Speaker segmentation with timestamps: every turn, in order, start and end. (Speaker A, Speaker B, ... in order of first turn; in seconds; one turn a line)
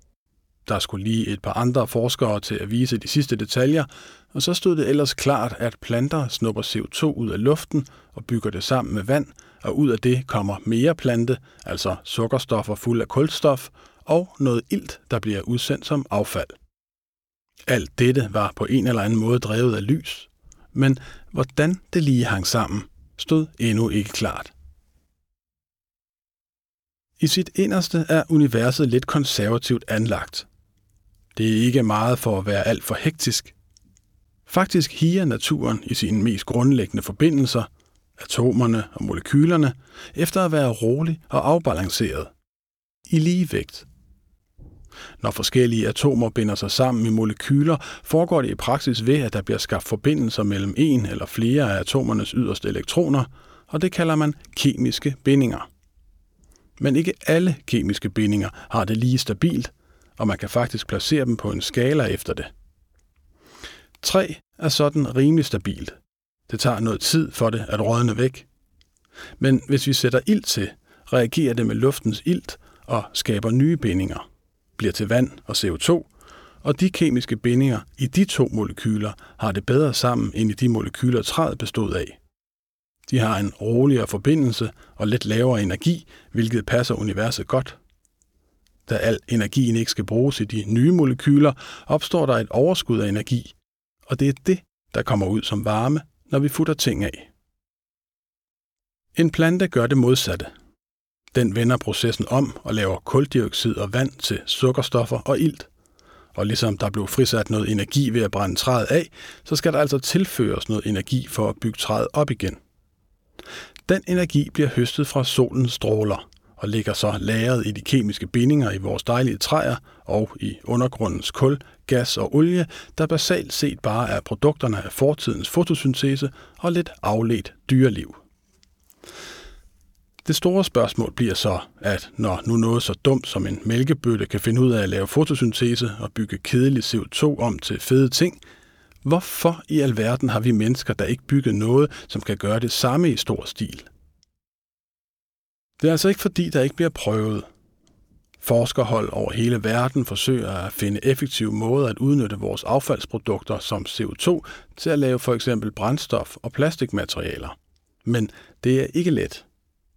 Speaker A: 0.7-16.6
Speaker A: 17.7-24.5
Speaker A: 27.2-30.5
Speaker A: 31.3-33.5
Speaker A: 34.5-42.3
Speaker A: 43.0-43.9
Speaker A: 45.2-55.7
Speaker A: 56.8-62.5
Speaker A: 64.0-66.0
Speaker A: 66.5-68.5
Speaker A: 69.4-74.2
Speaker A: 74.8-76.1
Speaker A: 76.6-82.2
Speaker A: 83.1-87.8
Speaker A: 88.8-93.5
Speaker A: 94.1-97.3
Speaker A: 99.1-100.5
Speaker A: 101.3-105.7
Speaker A: 106.3-112.6
Speaker A: 113.8-128.2
Speaker A: 130.2-138.4
Speaker A: 139.0-143.9
Speaker A: 145.8-147.4
Speaker A: 148.4-159.4